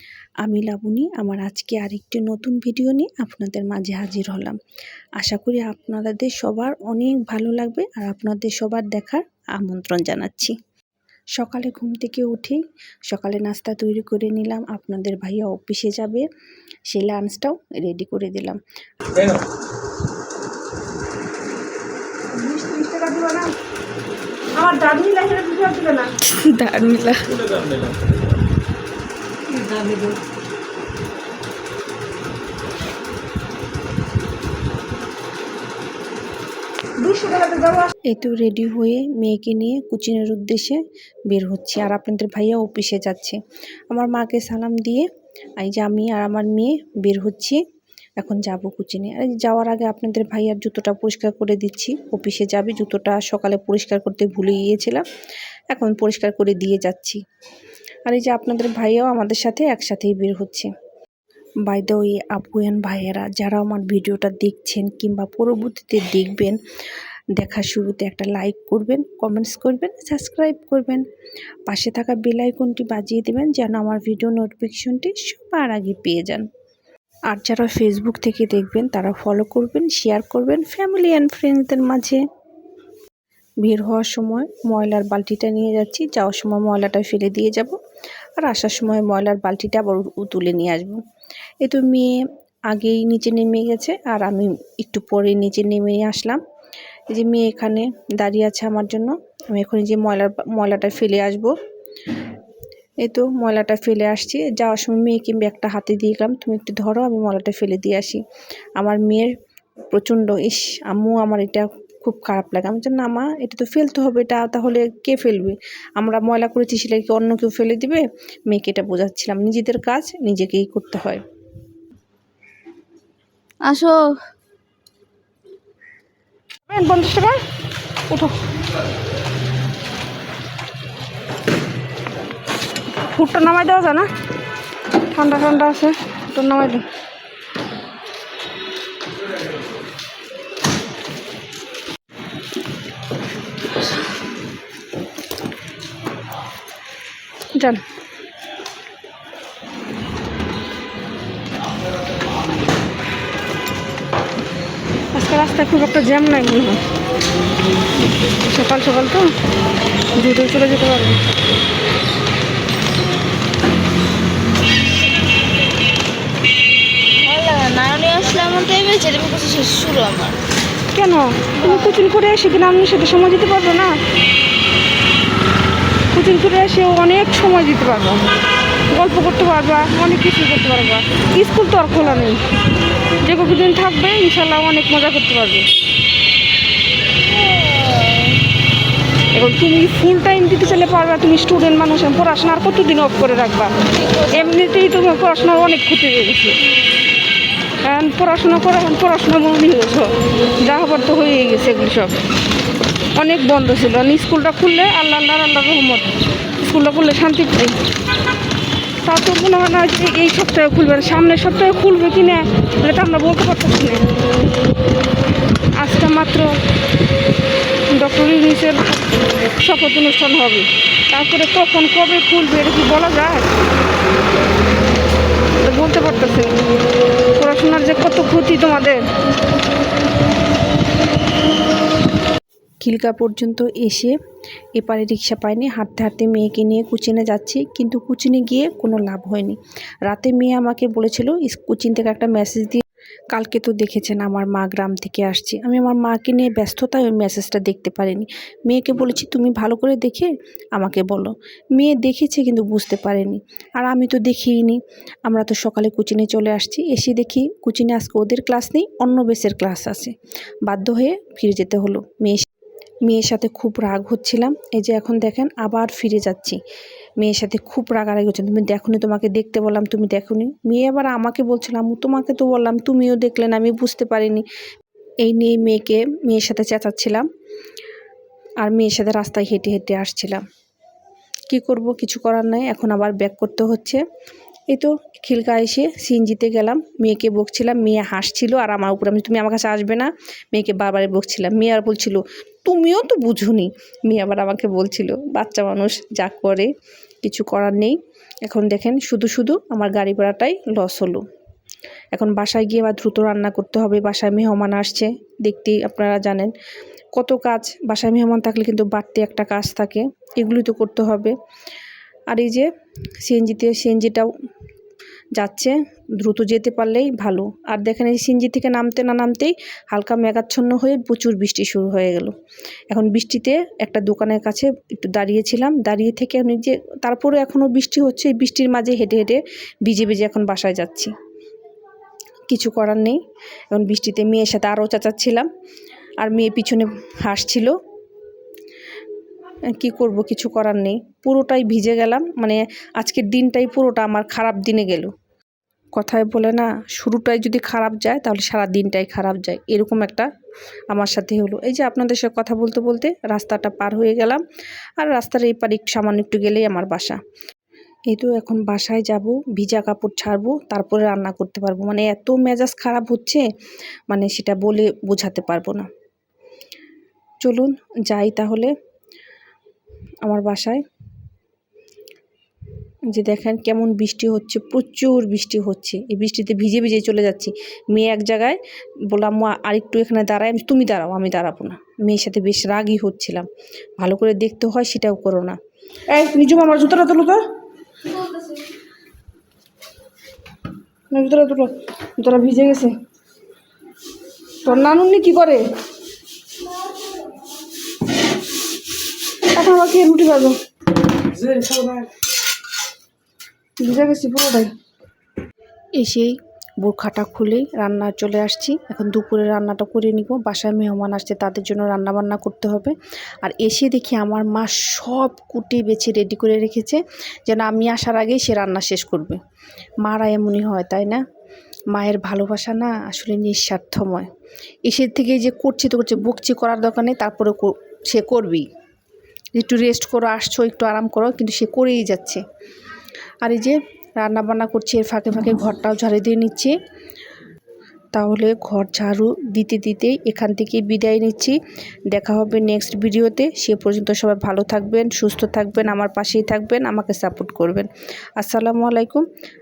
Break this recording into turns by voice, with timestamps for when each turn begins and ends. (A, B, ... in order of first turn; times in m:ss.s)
0:00.4-0:04.6 A
0:05.2-0:10.6 A
0:11.4-0:16.3 A
0:16.9-0:18.6 A
0:22.3-0:23.6 B
0:24.6-0:26.9 B
0:29.5-0:30.1 B
0:37.0-0:37.9 B
0:38.0-0:43.4 A
0:43.9-0:47.6 A
0:48.2-0:55.0 A
0:55.7-0:57.2 A
0:58.1-1:00.7 A
1:01.7-1:06.6 A
1:07.4-1:11.0 A
1:11.7-1:16.5 A
1:17.3-1:22.2 A
1:23.6-1:27.8 A
1:28.4-1:31.0 A
1:31.6-1:32.2 A
1:32.7-1:36.4 A
1:37.1-1:41.5 A
1:43.0-1:48.2 A
1:48.8-1:49.3 A
1:49.9-2:01.2 A
2:03.6-2:04.2 C
2:06.7-2:07.4 B
2:08.1-2:08.4 B
2:13.1-2:14.1 B
2:15.1-2:16.9 B
2:35.1-2:36.8 B
2:38.4-2:39.3 B
2:40.1-2:41.2 B
2:47.2-2:50.4 C
2:50.9-2:54.0 B
2:51.6-2:52.0 C
2:56.1-2:58.3 B
2:58.9-3:02.4 B
3:03.2-3:05.7 B
3:07.4-3:08.3 C
3:09.3-3:16.6 B
3:14.0-3:14.4 C
3:17.8-3:22.2 B
3:23.2-3:27.8 B
3:29.0-3:34.1 B
3:35.7-3:36.6 B
3:37.9-3:43.5 B
3:45.6-3:46.6 B
3:47.4-3:49.1 B
3:52.8-3:54.2 A
3:54.8-4:20.1 A
4:20.7-4:22.5 A
4:23.1-4:26.6 A
4:27.2-4:34.4 A
4:35.2-4:37.3 A
4:38.6-4:40.4 A
4:41.5-4:44.0 A
4:44.7-4:56.7 A
4:57.2-5:01.2 A
5:02.1-5:06.5 A
5:07.2-5:11.4 A
5:12.3-5:12.7 A
5:13.2-5:14.3 A
5:15.4-5:22.4 A
5:22.9-5:31.1 A
5:32.5-5:33.2 A
5:33.7-5:35.5 A
5:36.2-5:37.8 A
5:39.8-5:45.1 A
5:46.0-5:50.3 A
5:50.9-5:54.4 A
5:55.0-5:57.2 A
5:58.1-6:03.5 A
6:04.1-6:05.9 A
6:07.4-6:08.7 A
6:10.2-6:10.8 A
6:13.1-6:25.6 A
6:26.1-6:27.4 B
6:31.1-6:33.0 B
6:34.6-6:35.6 B
6:39.5-6:40.6 B
6:41.3-6:42.1 B
6:43.8-6:44.7 B
6:46.0-6:59.4 A
7:00.0-7:01.2 A
7:01.9-7:04.3 A
7:04.9-7:08.7 A
7:09.6-7:12.4 A
7:13.4-7:16.7 A
7:18.1-7:21.6 A
7:22.1-7:27.9 A
7:28.4-7:29.3 A